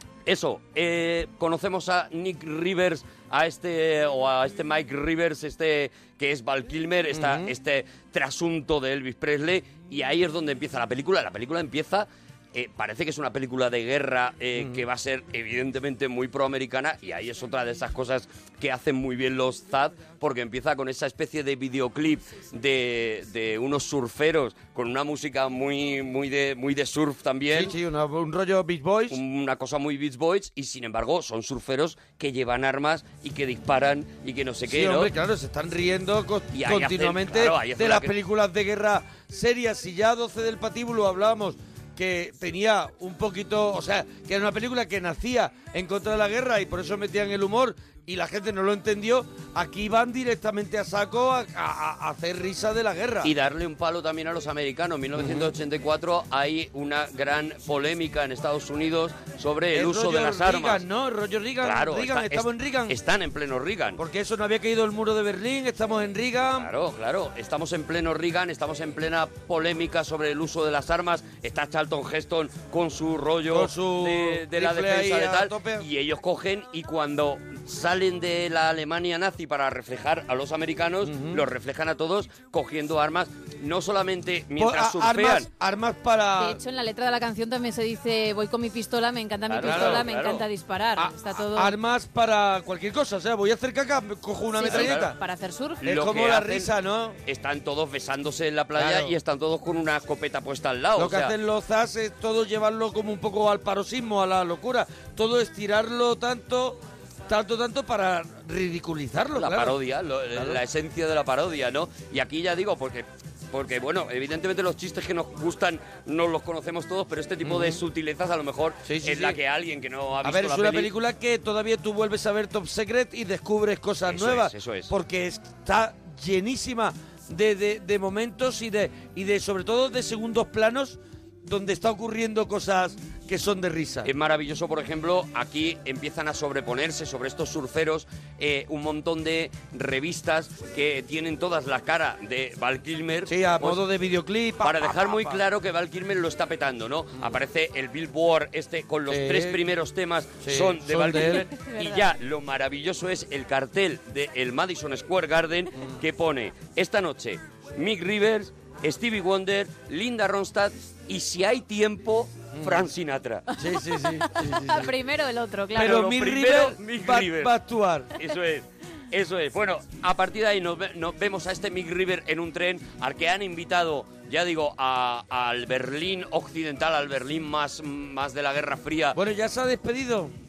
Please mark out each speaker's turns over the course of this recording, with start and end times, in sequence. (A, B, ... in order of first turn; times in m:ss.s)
0:00.3-0:27.7 A
0:07.1-0:07.5 B
0:14.6-0:14.8 B
0:27.5-0:29.2 B
0:29.1-0:35.1 A
0:34.7-0:53.3 B
0:36.5-0:38.1 A
0:53.2-1:00.8 A
0:55.2-0:55.5 B
0:59.7-1:03.0 B
1:01.6-1:04.0 A
1:04.0-1:06.7 B
1:06.6-1:25.5 A
1:13.5-1:15.9 B
1:21.0-1:21.4 B
1:24.6-1:26.6 B
1:26.4-1:31.7 C
1:29.5-1:30.4 A
1:29.6-1:30.1 B
1:31.0-1:35.2 B
1:34.6-1:35.8 C
1:34.6-1:35.1 A
1:35.8-1:36.7 A
1:35.8-1:37.2 B
1:37.3-1:41.3 A
1:38.8-1:39.2 B
1:41.0-1:49.8 B
1:49.4-2:00.9 A
1:50.3-1:50.6 B
1:57.4-1:57.8 B
1:58.8-1:59.4 B
2:00.2-2:14.1 B
2:04.0-2:04.9 A
2:14.0-2:23.8 A
2:23.3-2:25.4 B
2:24.6-2:43.4 A
2:29.1-2:29.6 B
2:30.4-2:31.5 B
2:31.3-2:32.0 C
2:42.5-2:42.9 B
2:43.6-2:44.9 B
2:43.6-2:46.0 C
2:45.7-2:48.1 B
2:45.8-2:47.5 A
2:48.2-2:59.2 A
2:59.2-3:00.3 B